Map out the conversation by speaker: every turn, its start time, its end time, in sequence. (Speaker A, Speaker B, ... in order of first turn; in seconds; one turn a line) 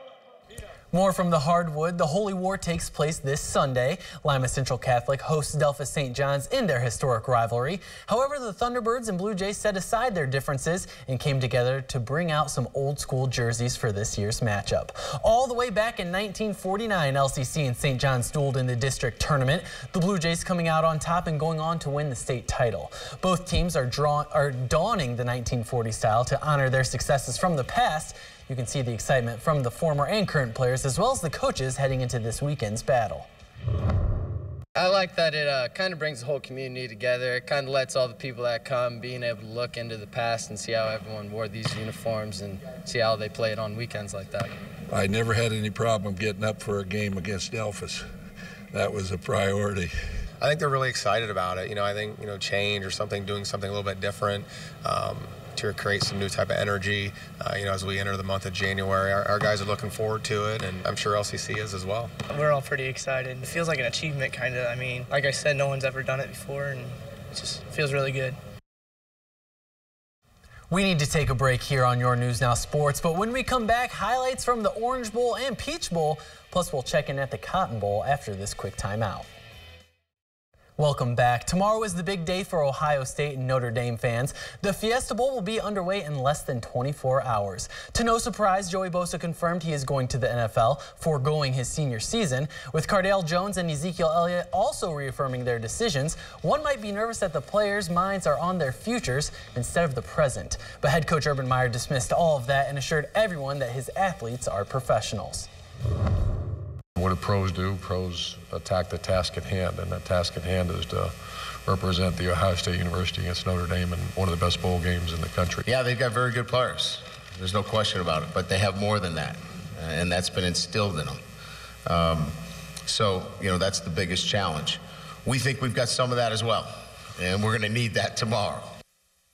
Speaker A: 0.9-33.3
Speaker B: 34.8-44.5
Speaker C: 44.9-48.1
Speaker C: 48.7-49.9
Speaker D: 50.4-62.1
Speaker E: 62.3-68.4
Speaker A: 70.7-79.3
Speaker A: 80.8-105.5
Speaker F: 107.0-111.1
Speaker F: 111.7-115.6
Speaker G: 115.7-121.2
Speaker G: 121.9-122.3
Speaker G: 122.9-128.7